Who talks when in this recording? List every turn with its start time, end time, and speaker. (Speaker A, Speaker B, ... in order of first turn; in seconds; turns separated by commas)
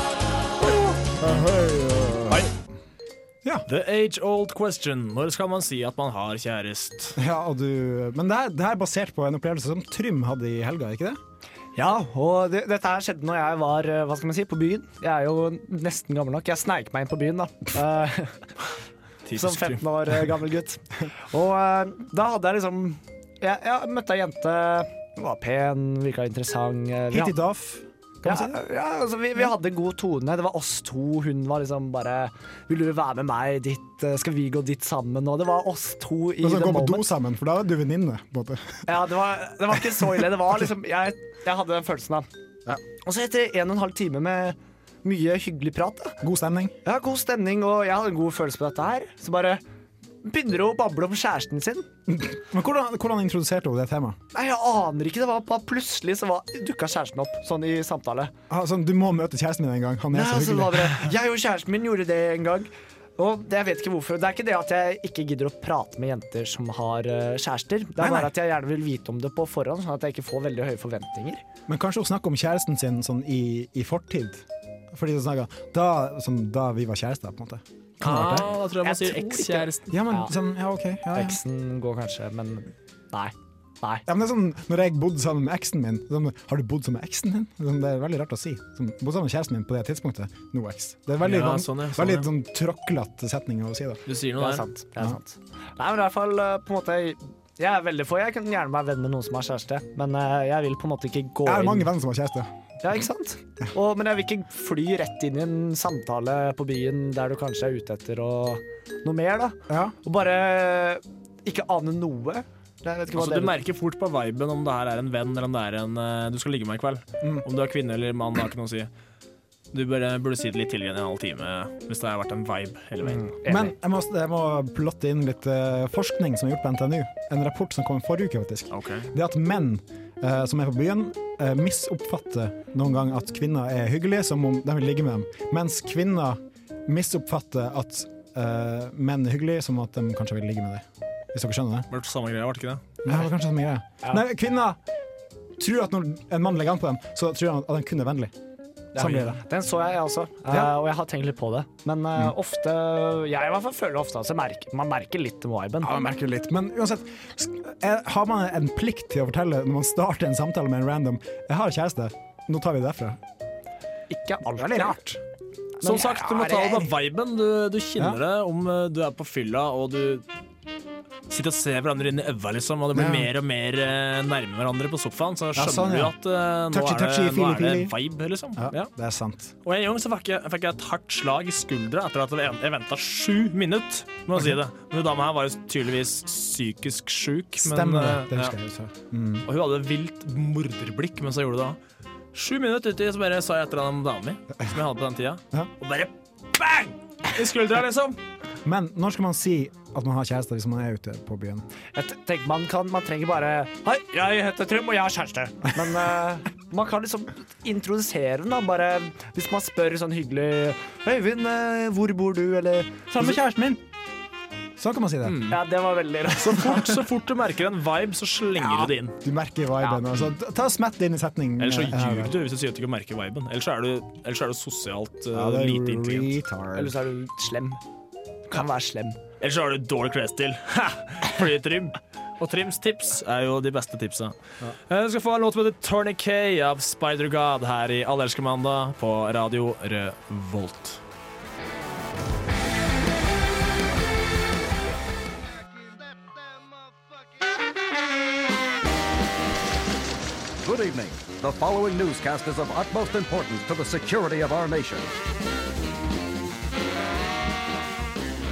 Speaker A: 1.2-2.5, Speaker B: 3.7-7.2, Speaker A: 7.2-11.2, Speaker C: 11.8-18.5, Speaker B: 19.3-19.8, Speaker C: 19.4-27.4, Speaker A: 27.1-28.6, Speaker C: 28.2-37.1, Speaker A: 36.4-38.9, Speaker C: 38.9-42.3, Speaker C: 43.0-46.2, Speaker A: 46.2-46.8, Speaker C: 46.9-49.6, Speaker C: 50.2-51.9, Speaker A: 52.1-54.2, Speaker C: 54.3-58.3, Speaker A: 58.5-61.0, Speaker C: 60.1-71.4, Speaker A: 68.0-68.3, Speaker A: 71.7-78.5, Speaker B: 78.0-79.9, Speaker C: 78.8-80.3, Speaker A: 79.9-81.4, Speaker C: 81.1-84.0, Speaker A: 84.1-94.0, Speaker B: 91.2-92.3, Speaker B: 94.1-94.7, Speaker C: 94.4-101.9, Speaker A: 101.5-102.5, Speaker C: 102.8-113.6, Speaker A: 109.7-110.0, Speaker B: 113.1-118.9, Speaker B: 119.7-123.3, Speaker C: 123.1-123.7, Speaker A: 123.5-141.9, Speaker B: 128.7-129.1, Speaker B: 141.9-142.8, Speaker A: 143.0-144.8, Speaker A: 145.6-148.3, Speaker A: 148.9-149.4, Speaker C: 148.9-156.0, Speaker A: 155.8-163.2, Speaker C: 164.1-165.0, Speaker A: 164.6-165.2, Speaker C: 165.8-166.9, Speaker B: 165.8-170.2, Speaker B: 171.3-178.9, Speaker A: 172.9-173.3, Speaker A: 175.6-176.2, Speaker A: 176.7-177.9, Speaker A: 178.6-179.5, Speaker B: 179.6-188.5, Speaker A: 187.6-189.5, Speaker B: 189.4-191.8, Speaker B: 192.3-198.2, Speaker A: 198.6-201.7, Speaker C: 201.9-213.4, Speaker A: 213.1-213.8, Speaker A: 214.8-215.5, Speaker B: 215.2-215.6, Speaker C: 215.5-217.0, Speaker B: 216.3-219.1, Speaker A: 219.2-222.3, Speaker B: 221.6-226.3, Speaker A: 225.3-226.9, Speaker C: 226.8-227.8, Speaker C: 228.5-229.2, Speaker B: 229.4-234.4, Speaker B: 234.9-241.0, Speaker D: 250.6-255.1